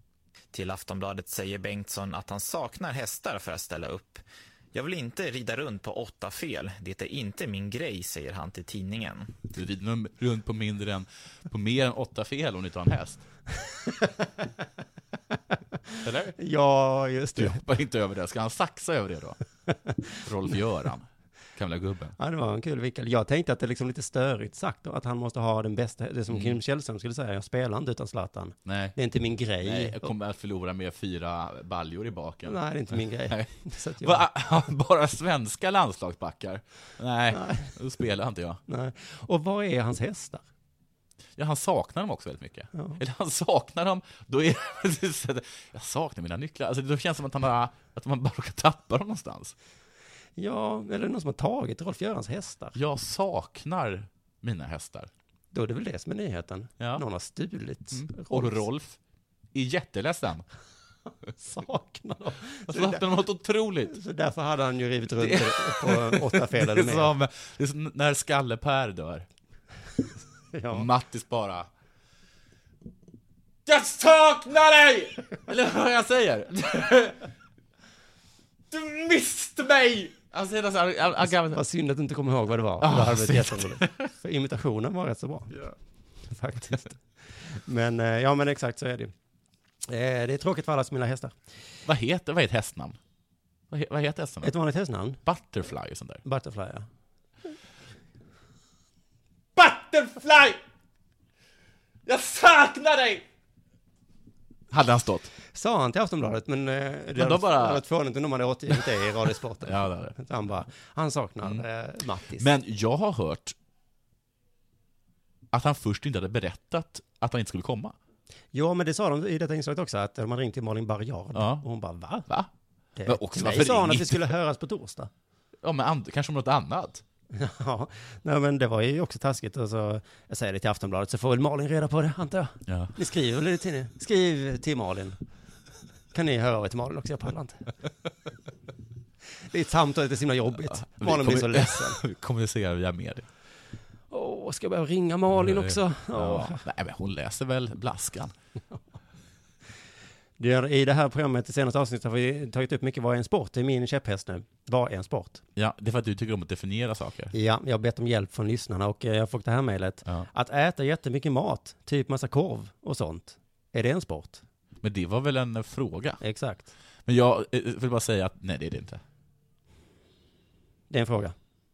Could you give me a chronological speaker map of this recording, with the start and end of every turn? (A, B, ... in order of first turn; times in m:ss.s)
0:00.5-0:09.4 A
0:09.5-0:13.2 B
0:16.0-0:16.4 B
0:16.4-0:17.6 C
0:17.4-0:19.4 B
0:19.7-0:20.2 C
0:20.2-0:22.2 B
0:22.2-0:30.1 C
0:26.3-0:26.6 B
0:28.7-0:29.0 B
0:29.6-0:38.6 B
0:32.4-0:34.2 C
0:37.3-0:37.8 C
0:38.7-0:40.4 C
0:41.4-0:49.6 B
0:42.7-0:43.0 C
0:50.4-0:52.8 C
0:52.8-0:55.1 B
0:55.5-0:58.6 C
0:57.9-0:59.0 B
0:59.5-1:00.4 B
1:01.4-1:03.1 C
1:02.7-1:04.0 B
1:03.9-1:07.1 C
1:05.2-1:09.3 B
1:10.5-1:10.9 C
1:10.7-1:11.7 B
1:13.7-1:17.3 B
1:18.7-1:21.6 B
1:21.4-1:25.6 C
1:22.8-1:24.1 B
1:26.3-1:29.1 C
1:29.9-1:31.4 C
1:31.8-1:33.0 B
1:33.7-1:34.5 B
1:34.4-1:35.2 C
1:35.2-1:36.2 B
1:36.2-1:36.9 C
1:39.6-1:40.6 B
1:42.1-1:43.2 B
1:44.7-1:45.3 B
1:45.5-1:52.5 C
1:47.2-1:47.8 B
1:48.7-1:49.0 B
1:49.6-1:50.2 B
1:52.3-1:53.6 B
1:55.5-1:58.0 B
1:58.5-2:02.3 C
2:01.3-2:01.7 B
2:03.0-2:05.1 C
2:03.1-2:04.3 B
2:05.6-2:07.0 B
2:07.3-2:15.2 C
2:12.7-2:12.9 B
2:16.1-2:17.6 C
2:19.5-2:22.0 C
2:20.7-2:23.3 B
2:24.1-2:26.6 C
2:25.4-2:28.3 B
2:30.4-2:35.4 C
2:35.6-2:37.3 B
2:37.3-2:44.4 C
2:44.8-2:46.2 B
2:46.2-2:46.7 C
2:47.1-2:49.0 B
2:50.9-2:51.4 C